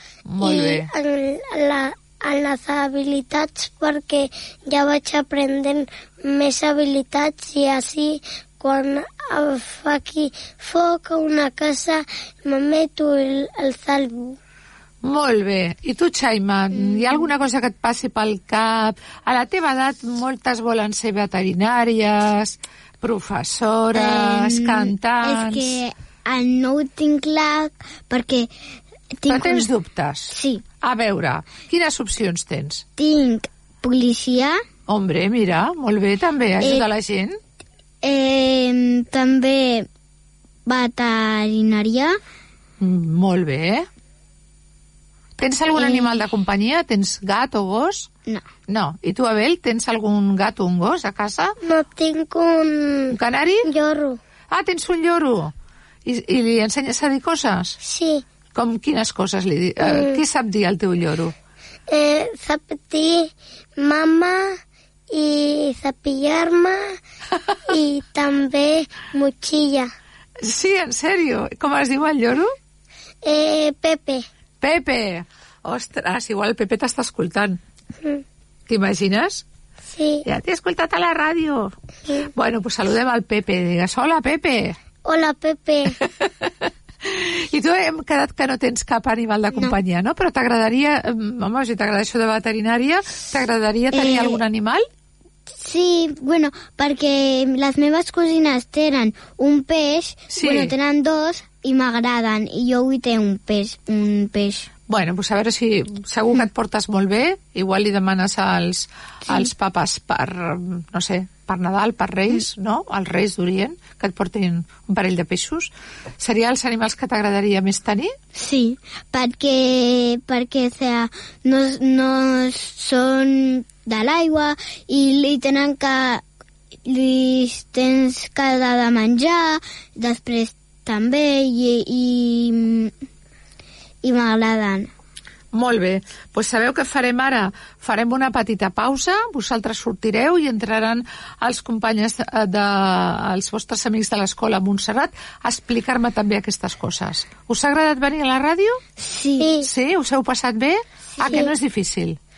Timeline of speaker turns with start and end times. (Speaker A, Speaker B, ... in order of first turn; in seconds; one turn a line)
Speaker A: 0.3-0.9
Speaker B: 0.9-14.3
Speaker A: 15.0-25.8
Speaker C: 23.9-28.5
Speaker C: 29.2-29.7
Speaker A: 29.3-32.9
Speaker C: 30.3-30.6
Speaker C: 33.0-34.6
Speaker A: 34.9-37.4
Speaker C: 38.0-39.9
Speaker C: 40.7-42.2
Speaker A: 42.8-43.9
Speaker A: 45.4-48.1
Speaker A: 48.7-51.6
Speaker B: 51.7-53.1
Speaker A: 53.1-53.7
Speaker B: 53.7-54.2
Speaker A: 54.5-55.5
Speaker A: 56.1-57.8
Speaker B: 57.9-58.2
Speaker A: 58.5-61.3
Speaker B: 61.9-64.4
Speaker B: 65.1-66.8
Speaker B: 67.7-69.9
Speaker A: 70.4-72.5
Speaker B: 73.2-74.2
Speaker A: 74.6-77.6
Speaker A: 78.7-79.4
Speaker B: 79.9-80.2
Speaker A: 80.2-81.7
Speaker A: 82.3-84.8
Speaker B: 85.0-86.0
Speaker A: 86.0-86.5
Speaker A: 87.0-94.8
Speaker C: 93.9-94.4
Speaker C: 95.6-104.7
Speaker A: 100.3-100.7
Speaker A: 104.9-118.2
Speaker C: 118.3-126.2
Speaker C: 126.8-132.9
Speaker C: 134.0-134.9
Speaker A: 135.5-148.8
Speaker C: 149.0-149.5
Speaker B: 149.4-149.7
Speaker A: 149.6-152.2
Speaker B: 151.2-151.5